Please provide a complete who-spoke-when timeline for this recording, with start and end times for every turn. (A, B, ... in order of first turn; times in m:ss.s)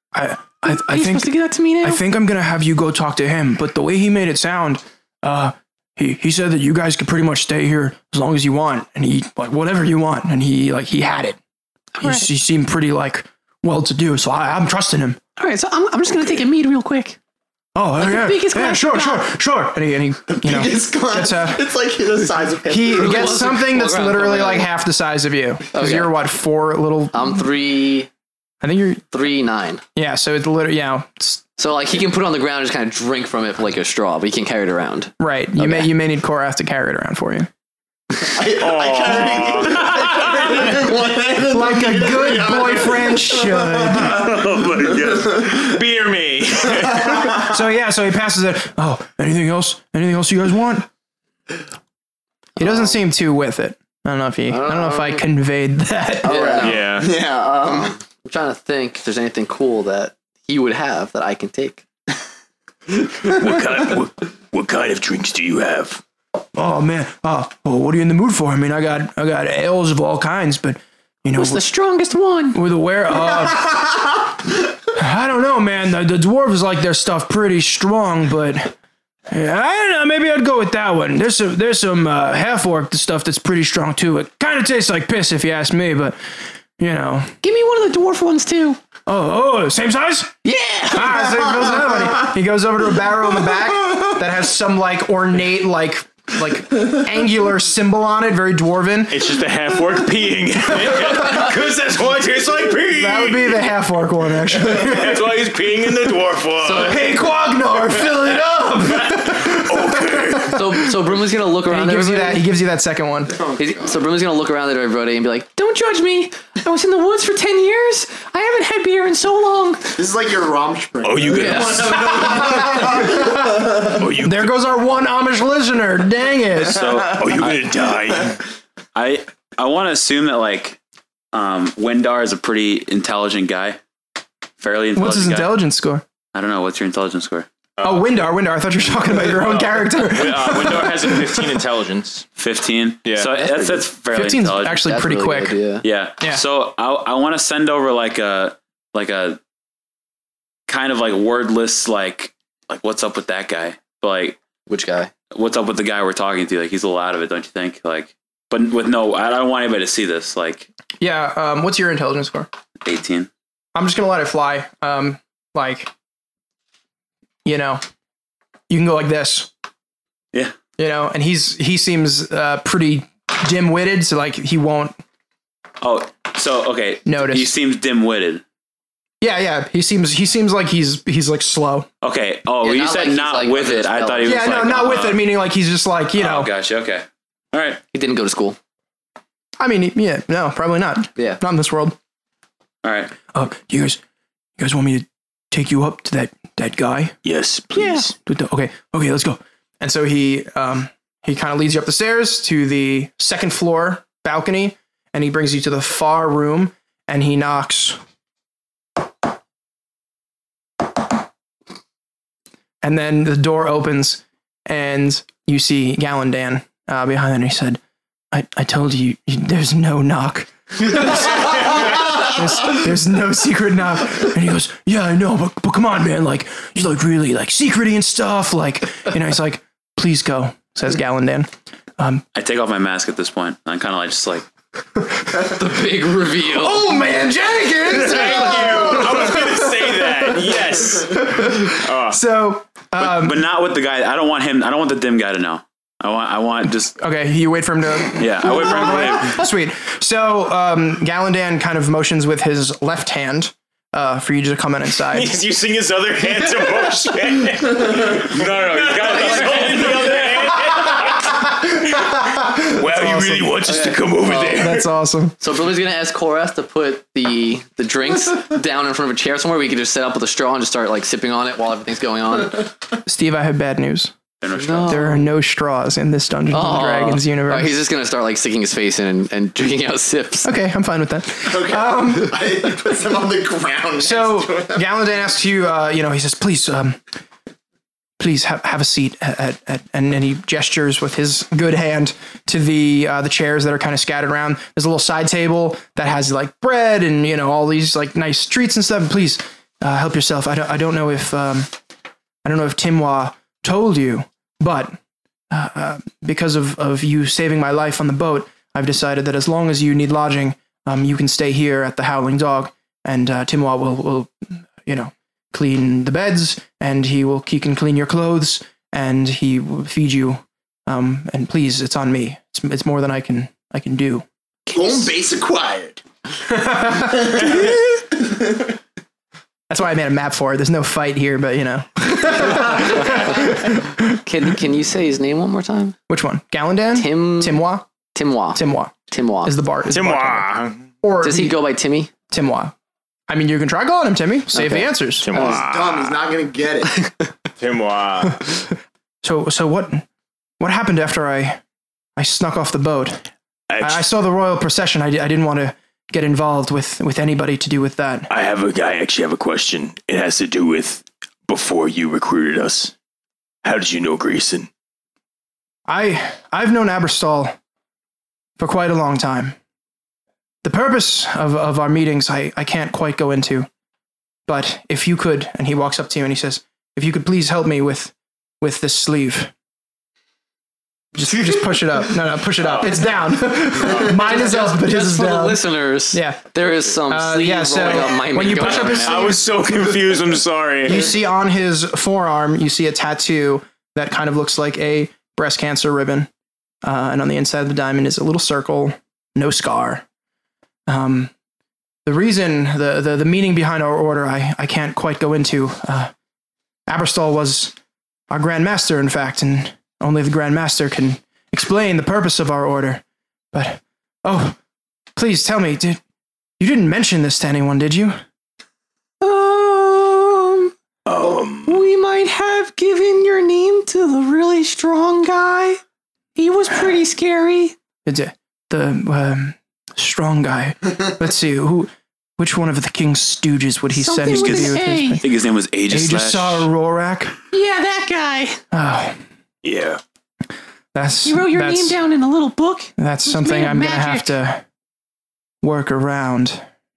0:00.1-0:11.4 A
0:00.7-0:02.0 B
0:12.0-0:12.3 B
0:12.0-0:15.2 A
0:15.4-0:17.2 B
0:17.8-0:21.7 A
0:18.0-0:19.3 B
0:20.3-0:23.4 C
0:22.7-0:27.5 A
0:22.9-0:24.7 D
0:25.7-0:26.1 D
0:27.1-0:28.1 D
0:28.6-0:29.0 A
0:29.1-0:29.8 D
0:30.0-0:31.4 A
0:31.6-0:35.9 D
0:35.2-0:37.5 A
0:38.3-0:45.7 C
0:38.6-0:40.5 E
0:41.5-0:44.3 A
0:44.0-0:45.5 F
0:45.4-0:47.2 E
0:46.8-0:47.5 C
0:47.5-0:50.9 A
0:52.6-0:52.9 D
0:52.6-0:56.5 A
0:54.5-0:55.2 D
0:56.2-0:56.9 D
0:56.2-0:58.0 C
0:56.6-0:57.1 E
0:57.7-1:01.8 D
1:03.2-1:06.0 G
1:06.6-1:11.6 A
1:11.4-1:12.6 B
1:12.5-1:13.9 A
1:14.9-1:18.7 A
1:19.3-1:26.2 A
1:26.8-1:27.4 A
1:27.4-1:28.8 B
1:29.1-1:39.3 A
1:39.1-1:43.4 E
1:40.5-1:42.0 G
1:43.0-1:45.2 A
1:44.6-1:47.0 E
1:46.6-1:47.0 D
1:46.8-1:50.6 A
1:49.5-1:50.6 G
1:50.5-1:52.5 D
1:51.6-1:53.3 A
1:53.3-1:54.0 C
1:53.6-1:55.5 D
1:55.6-2:00.0 B
2:00.0-2:04.0 C
2:01.0-2:02.1 G
2:01.3-2:02.0 D
2:02.3-2:06.9 A
2:03.9-2:04.5 G
2:06.6-2:07.7 F
2:07.1-2:08.4 G
2:09.0-2:10.8 F
2:11.3-2:13.8 F
2:14.6-2:15.6 F
2:15.0-2:16.0 A
2:16.3-2:17.5 F
2:17.8-2:18.1 E
2:17.8-2:21.5 A
2:19.0-2:22.3 E
2:22.4-2:24.9 F
2:23.0-2:23.4 E
2:24.1-2:25.6 A
2:24.8-2:25.8 D
2:25.8-2:29.4 F
2:30.7-2:34.4 F
2:34.7-2:35.1 D
2:35.3-2:40.7 F
2:41.0-2:42.5 A
2:42.8-2:43.3 F
2:43.8-2:45.9 A
2:47.4-2:47.8 A
2:48.7-2:49.5 A
2:50.8-2:55.0 A
2:55.8-2:58.4 F
2:57.0-2:57.5 A
2:59.2-3:01.9 A
3:02.0-3:05.2 F
3:02.6-3:04.5 D
3:04.2-3:06.5 A
3:06.2-3:07.8 F
3:07.9-3:08.6 D
3:09.6-3:12.0 A
3:12.8-3:13.1 F
3:13.3-3:14.0 A
3:14.6-3:17.2 A
3:17.2-3:18.1 G
3:17.8-3:18.1 B
3:18.2-3:28.0 A
3:32.8-3:37.8 A
3:38.3-3:52.2 A
3:52.4-3:54.5 F
3:55.4-3:56.9 D
3:56.4-4:00.3 A
3:57.9-4:02.2 E
4:01.1-4:03.4 A
4:03.0-4:07.0 F
4:07.0-4:15.4 A
4:08.1-4:09.4 F
4:15.1-4:21.3 E
4:19.0-4:20.0 D
4:22.7-4:24.8 G
4:22.7-4:23.6 A
4:23.6-4:24.7 D
4:24.4-4:25.4 A
4:25.4-4:32.7 D
4:33.1-4:34.1 A
4:34.4-4:35.1 F
4:34.6-4:35.3 D
4:34.9-4:37.8 A
4:36.5-4:40.5 D
4:40.4-4:42.4 A
4:41.4-4:44.8 C
4:44.0-4:47.0 A
4:48.2-5:01.7 A
5:02.4-5:05.0 A
5:05.5-5:24.3 A
5:24.7-5:26.0 C
5:24.7-5:25.1 B
5:26.6-5:26.9 A
5:26.9-5:28.7 C
5:29.7-5:34.1 A
5:34.2-5:36.0 D
5:36.1-5:37.9 A
5:37.0-5:37.6 D
5:38.1-5:39.6 D
5:38.6-5:40.5 A
5:39.9-5:40.9 E
5:41.0-5:41.6 A
5:41.2-5:42.1 D
5:42.3-5:42.7 A
5:43.3-5:45.3 A
5:44.5-5:45.6 D
5:45.2-5:46.2 E
5:45.4-5:47.1 C
5:47.6-5:48.5 E
5:49.2-5:50.1 A
5:50.6-5:51.6 A
5:52.2-5:53.3 A
5:53.7-5:54.0 G
5:53.8-5:58.3 A
5:58.3-6:02.9 G
6:03.6-6:04.7 G
6:05.9-6:07.6 A
6:08.6-6:09.6 A
6:10.6-6:13.7 A
6:14.5-6:19.5 A
6:21.1-6:26.4 A
6:22.6-6:23.1 E
6:24.2-6:29.1 D
6:27.1-6:29.8 A
6:28.5-6:31.1 E
6:30.8-6:36.3 A
6:36.8-6:40.0 A
6:40.9-6:41.3 A
6:42.0-6:46.1 A
6:46.9-6:47.7 A
6:48.3-6:54.6 A
6:55.2-6:56.0 A
6:56.6-6:58.2 A
6:59.2-7:05.8 B
7:01.1-7:01.8 G
7:06.4-7:07.8 B
7:08.0-7:15.2 A
7:13.9-7:15.2 B
7:14.3-7:16.7 F
7:15.9-7:17.4 A
7:17.5-7:18.6 B
7:18.7-7:19.2 A
7:19.6-7:20.0 G
7:20.9-7:22.0 A
7:21.2-7:24.3 B
7:23.0-7:24.6 A
7:25.6-7:26.6 A